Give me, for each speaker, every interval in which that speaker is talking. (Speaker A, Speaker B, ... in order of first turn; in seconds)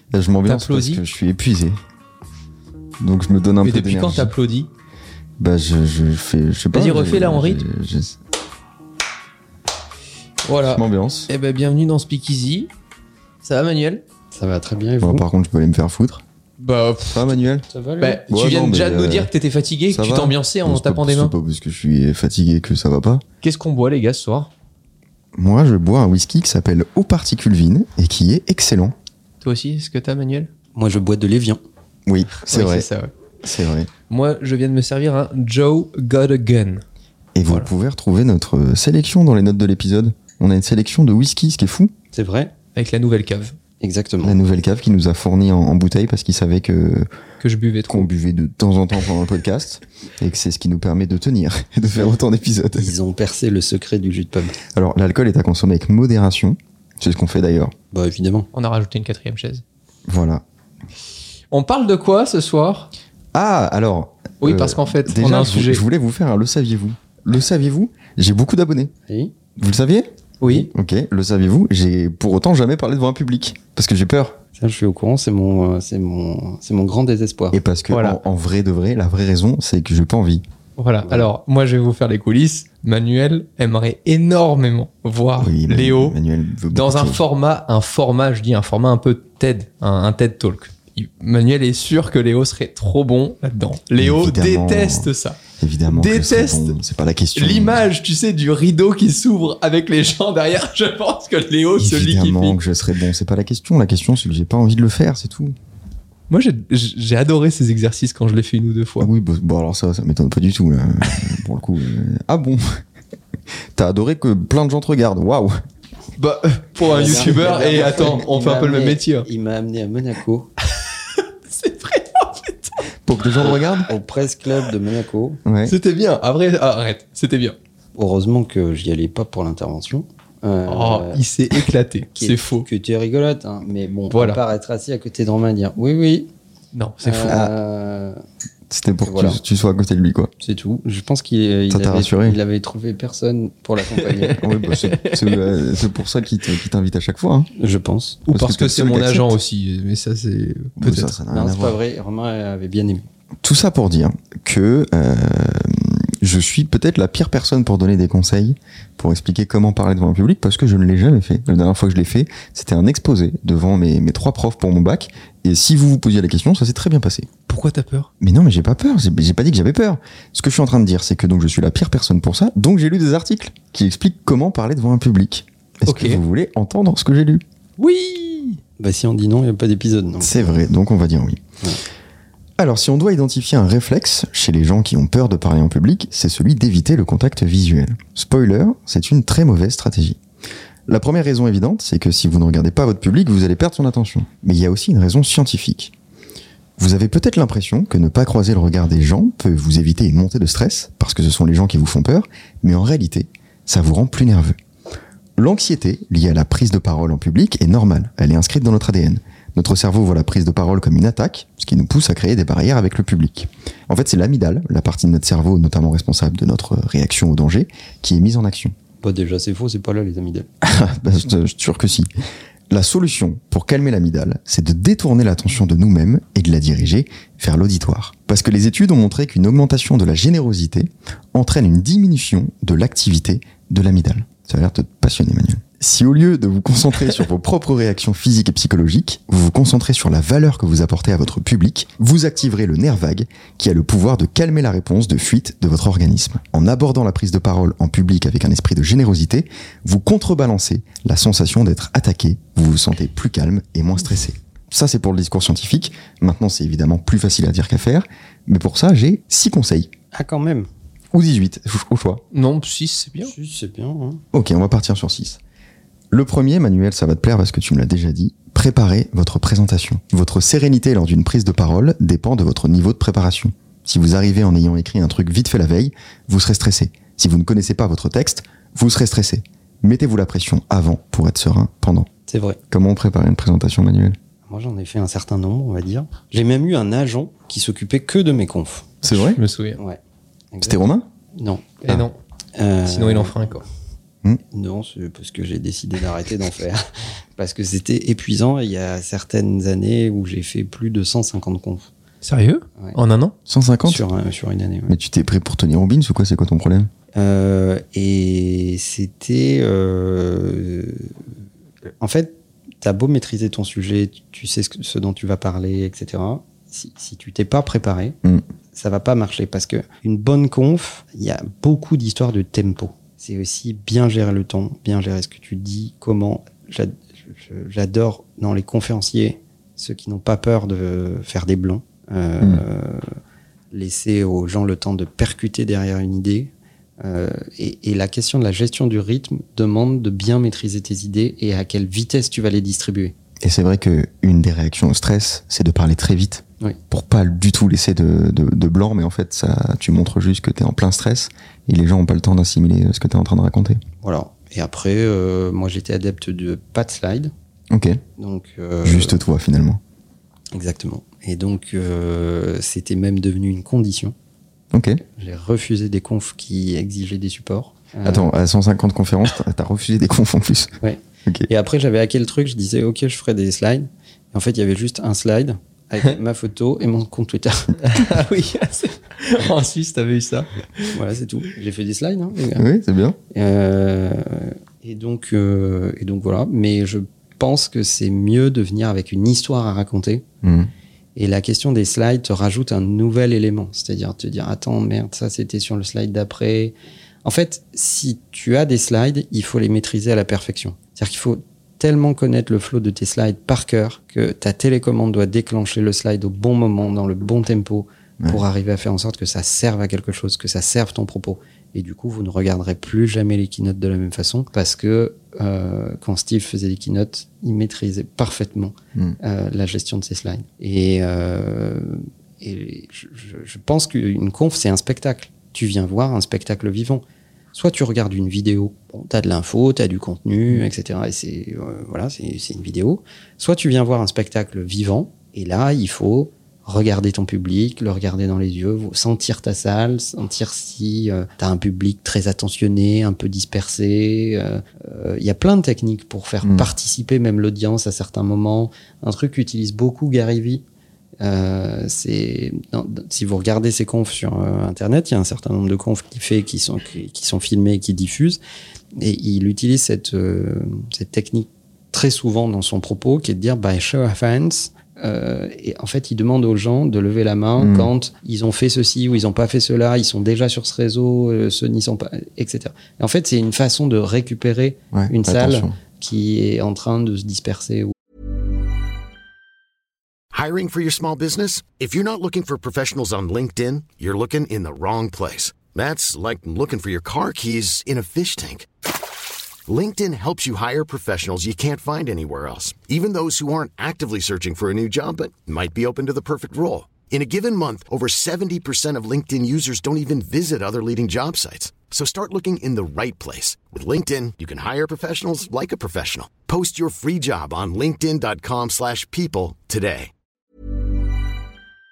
Speaker A: 0.1-1.8, 3.0-4.3, 5.4-8.2, 10.6-11.3, 15.0-16.2, 17.1-17.6, 18.3-19.3, 19.9-23.2, 25.3-28.9, 32.1-32.9, 33.4-33.9, 37.4-41.9, 44.2-47.1, 47.9-52.9, 54.7-57.7, 60.1-60.4, 63.3-68.9, 69.5-70.1, 70.7-74.4, 77.5-80.4, 85.4-87.2, 94.0-97.8, 101.8-105.5, 109.0-112.8, 113.7-115.5, 117.0-117.5, 123.0-123.9, 125.4-125.8, 138.7-140.3, 141.7-142.4, 144.4-147.5, 148.3-149.3, 150.8-151.8, 153.4-167.3, 168.2-177.4, 180.2-181.4, 182.6-190.2, 190.9-195.9, 196.8-204.6, 205.4-218.7, 220.6-222.1, 222.7-259.9, 261.1-262.2, 264.3-265.4, 266.1-282.1, 282.7-284.1, 289.0-289.4, 290.6-291.1, 303.5-304.0, 304.9-306.9, 343.4-353.8, 357.7-358.0, 358.8-359.8, 364.7-365.0, 368.0-371.5, 382.5-383.2, 390.4-390.7, 446.4-446.7, 467.6-467.9, 474.9-475.8
Speaker B: 0.5-1.0, 3.6-4.7, 6.7-7.6, 10.4-12.7, 13.4-14.0, 16.6-17.3, 18.0-21.3, 23.4-24.5, 29.4-30.5, 32.4-33.1, 34.1-36.8, 42.7-43.5, 47.4-48.1, 58.5-59.6, 61.5-62.9, 64.4-65.8, 70.4-70.7, 77.9-78.2, 80.8-86.2, 86.7-95.4, 95.9-96.8, 97.3-102.6, 106.3-109.1, 116.2-119.3, 120.7-122.8, 125.7-127.5, 130.7-132.7, 134.1-134.4, 136.7-137.4, 144.0-145.6, 148.2-151.1, 167.5-168.1, 175.9-176.2, 177.8-178.6, 262.3-263.3, 289.0-289.8, 291.8-292.1, 292.9-293.6, 302.2-303.3, 377.8-381.0
Speaker C: 14.3-15.3, 17.7-18.2, 30.7-31.6, 42.1-42.5, 43.8-44.4, 52.7-54.6, 57.9-58.5, 69.1-69.3, 70.4-70.7, 74.6-77.6, 81.0-81.3, 116.8-120.5, 123.4-125.4, 127.9-136.3, 137.0-138.2, 139.0-139.4, 140.4-144.4, 147.6-148.2, 151.3-153.1, 178.8-180.6, 219.0-220.5, 260.1-260.7, 263.2-264.2, 282.3-282.6, 284.5-288.9, 290.5-290.8, 291.3-291.8, 292.6-293.6, 294.5-296.8, 297.4-301.9, 303.8-304.9, 307.1-311.1, 312.0-318.2, 318.7-333.1, 333.7-343.1, 354.0-357.3, 358.2-359.2, 360.5-364.1, 365.1-368.3, 370.8-377.8, 380.9-382.6, 383.3-390.2, 391.1-427.0, 427.5-450.6, 451.2-458.4, 458.9-477.9
Speaker D: 480.3-488.7, 489.7-510.1